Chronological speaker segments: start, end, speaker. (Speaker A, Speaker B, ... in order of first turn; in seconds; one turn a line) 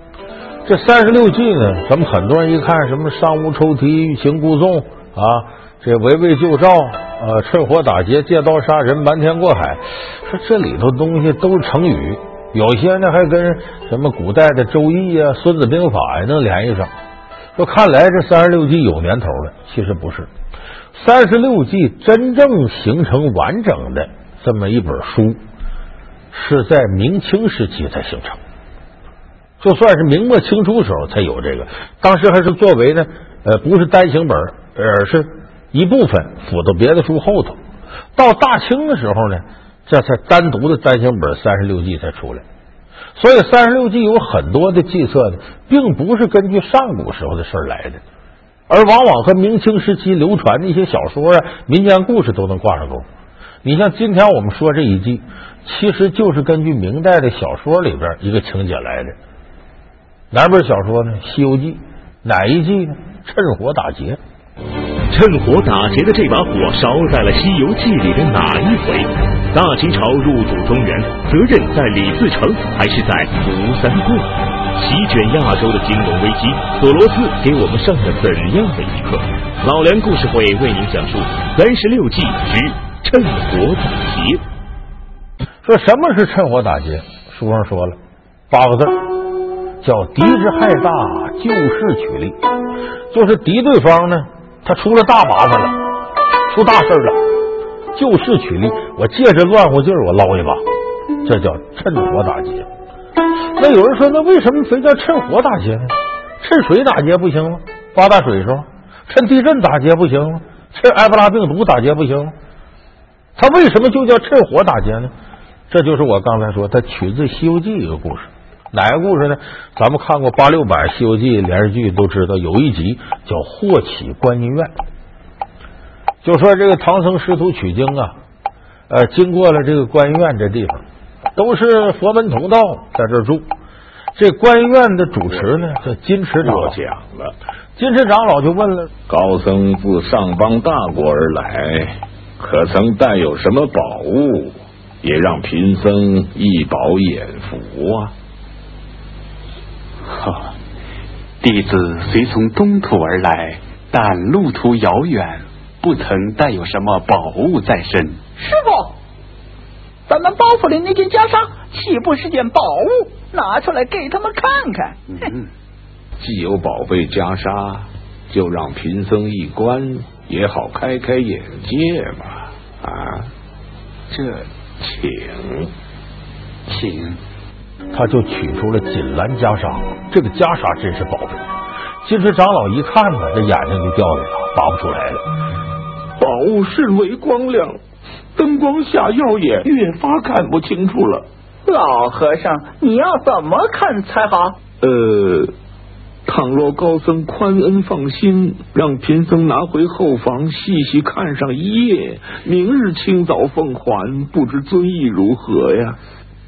Speaker A: 0.7-16.9
Speaker A: 17.6-20.3
Speaker A: 20.9-25.4
Speaker A: 26.3-28.4
Speaker A: 29.6-37.6
Speaker A: 38.2-42.4
Speaker A: 43.2-48.0
Speaker A: 48.7-53.1
Speaker A: 53.6-59.2
Speaker A: 60.3-64.2
Speaker B: 65.1-84.4
Speaker A: 85.6-88.0
Speaker A: 88.5-89.2
Speaker A: 89.8-92.4
Speaker A: 93.1-95.8
Speaker A: 96.5-97.2
Speaker A: 97.9-100.6
Speaker A: 101.2-102.7
Speaker A: 103.6-112.3
Speaker A: 113.4-115.1
Speaker A: 115.7-124.7
Speaker A: 126.2-128.2
Speaker A: 128.9-130.8
Speaker A: 131.4-133.5
Speaker A: 134.2-136.8
Speaker C: 136.4-137.3
Speaker A: 137.8-138.9
Speaker C: 139.1-148.1
Speaker D: 150.1-150.5
Speaker D: 151.4-158.2
Speaker E: 158.4-159.0
Speaker E: 160.1-165.0
Speaker C: 166.2-173.3
Speaker D: 174.1-174.5
Speaker C: 174.8-175.7
Speaker D: 176.7-177.2
Speaker A: 177.9-181.4
Speaker A: 182.0-185.2
Speaker C: 186.2-187.8
Speaker C: 188.4-191.3
Speaker E: 191.7-194.6
Speaker C: 194.8-195.5
Speaker C: 196.2-206.0